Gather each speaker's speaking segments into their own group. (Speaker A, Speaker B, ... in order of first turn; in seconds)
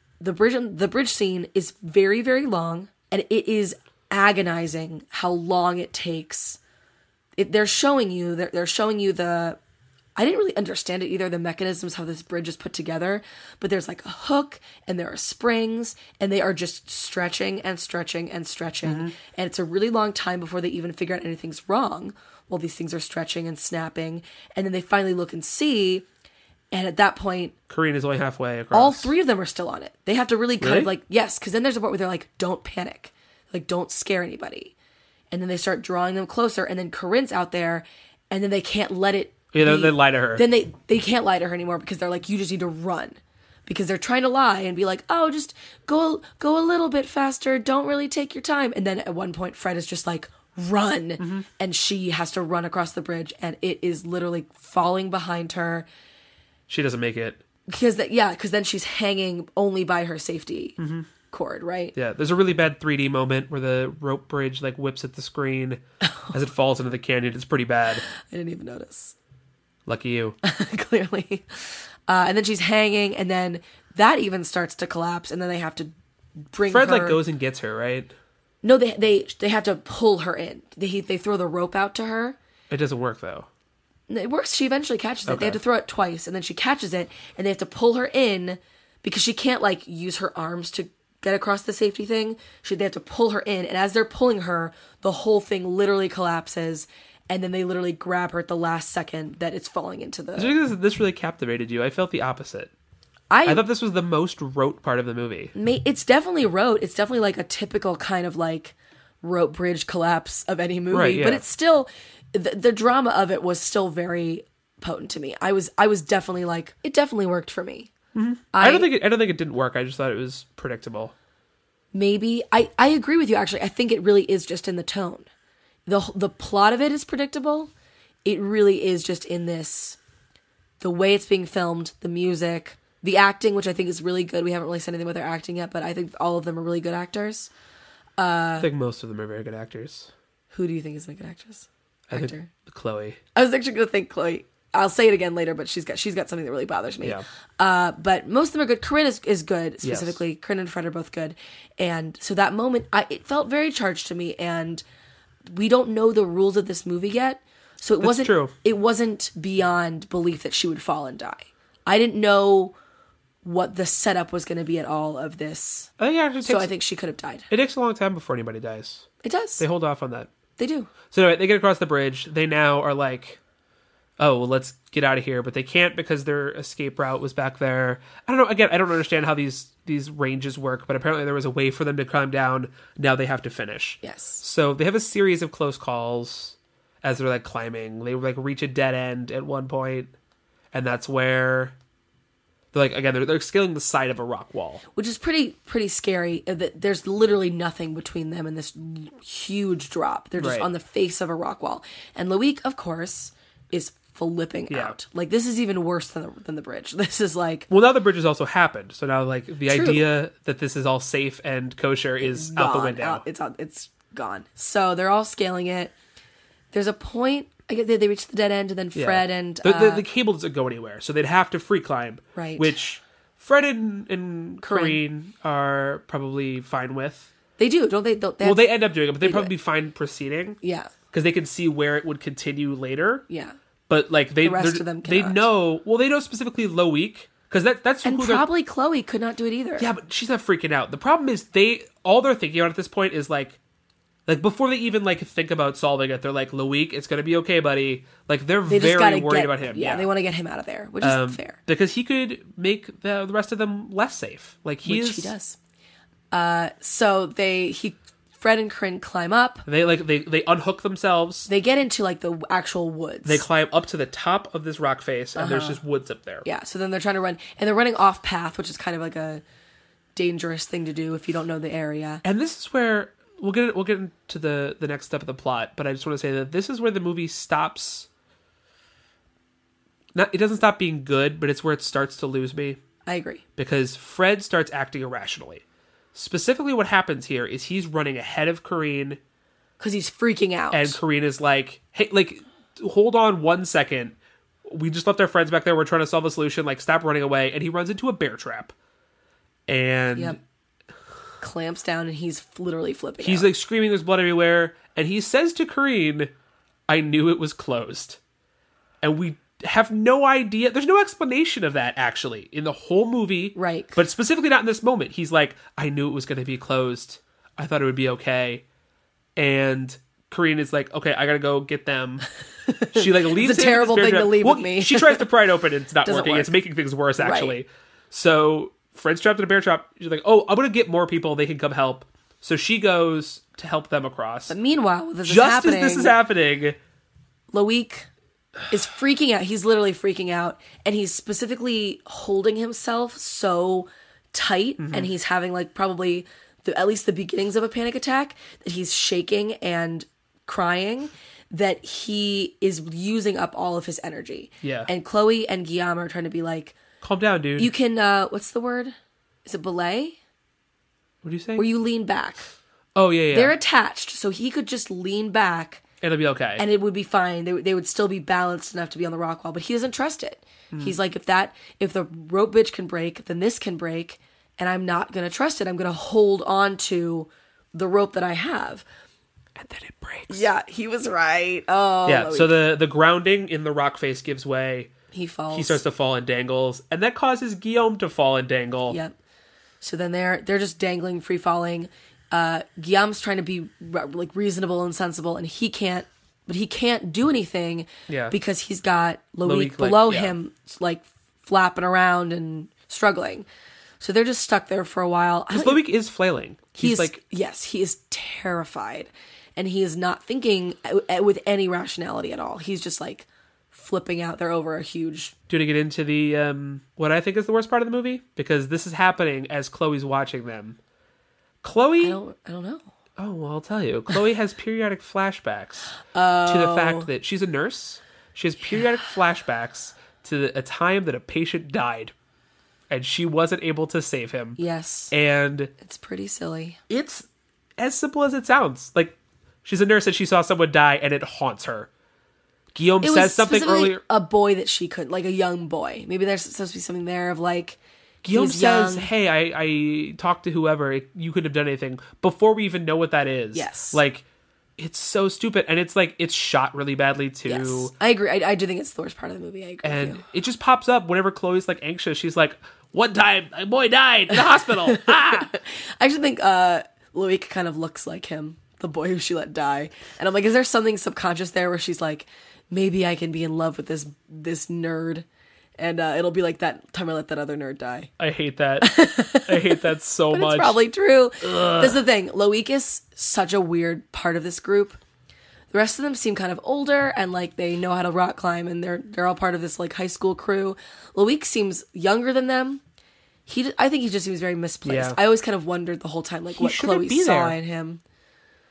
Speaker A: 0.2-6.6, 7.4-9.6, 10.2-26.1, 26.7-27.6, 28.7-34.7, 35.3-55.9, 57.7-60.8, 61.3-62.0, 66.0-66.4, 68.1-69.2, 70.4-75.9, 76.5-77.2, 78.6-82.4, 84.1-100.6, 103.3-103.7, 105.5-117.9, 118.5-118.9, 121.9-125.3, 125.9-127.7, 128.2-130.0, 130.8-137.5, 138.2-138.7, 140.5-142.5, 143.3-154.8, 155.5-162.8, 163.4-165.9, 166.4-167.5, 169.2-169.7, 170.6-170.9, 184.0-184.4, 194.9-207.7, 209.7-210.0, 212.2-215.9, 216.7-220.1, 222.3-222.7, 224.6-225.0, 227.6-229.5, 230.6-230.9, 233.3-233.6, 234.4-235.5, 238.0-239.9, 248.7-251.6, 254.8-255.6, 256.3-259.6, 261.5-263.4, 265.4-265.8, 266.4-269.4, 270.2-272.2, 283.1-283.4, 289.8-291.0, 301.4-303.5, 313.6-314.0, 322.7-325.3, 326.0-326.6, 327.2-327.6, 334.5-336.2, 337.5-338.1, 338.7-356.8, 357.6-358.9, 359.5-360.2, 361.6-362.5, 363.3-365.8, 366.6-378.9, 380.3-382.6, 385.1-385.8, 388.9-389.1, 389.8-403.5, 404.0-405.8, 406.8-415.3, 422.0-422.9, 426.1-427.1, 434.6-435.1, 435.8-436.8, 443.0-447.8, 448.3-449.1, 453.5-454.0, 457.5-460.2, 464.3-475.3, 475.8-478.1, 478.8-485.0, 485.7-492.8, 493.5-498.0
Speaker B: 18.9-19.1, 27.7-29.1, 30.6-30.9, 39.5-40.5, 51.2-51.5, 56.7-57.4, 60.8-61.1, 62.0-68.0, 69.9-70.4, 76.7-78.1, 82.7-83.5, 85.3-85.6, 100.4-102.7, 103.5-105.5, 110.9-111.4, 118.1-121.1, 138.6-140.1, 142.1-143.2, 149.8-150.2, 158.0-158.5, 166.0-166.7, 167.5-169.1, 169.6-170.3, 171.1-173.4, 174.2-190.1, 190.7-191.8, 192.7-194.8, 200.4-200.7, 204.7-205.0, 207.7-213.2, 218.9-227.3, 228.4-230.6, 231.1-233.2, 233.9-238.5, 239.8-243.6, 244.3-250.1, 251.0-255.3, 259.7-261.5, 263.2-266.5, 272.2-278.1, 280.1-282.8, 283.6-289.2, 290.7-298.7, 299.7-300.4, 303.2-306.3, 306.9-308.2, 309.0-318.6, 319.4-322.3, 322.9-334.6, 335.2-336.8, 344.8-345.1, 354.6-354.9, 357.0-357.7, 361.2-361.6, 362.9-363.6, 366.0-366.6, 379.6-380.5, 382.1-384.9, 385.5-389.0, 398.1-398.4, 399.4-400.3, 405.5-407.2, 415.5-420.8, 421.6-422.2, 423.2-425.9, 426.5-432.1, 432.9-434.6, 435.1-435.7, 436.9-437.3, 437.8-441.9, 442.7-444.0, 448.2-454.2, 454.8-457.9, 459.8-465.5, 478.2-480.8, 481.4-482.0, 494.9-495.2, 496.5-497.6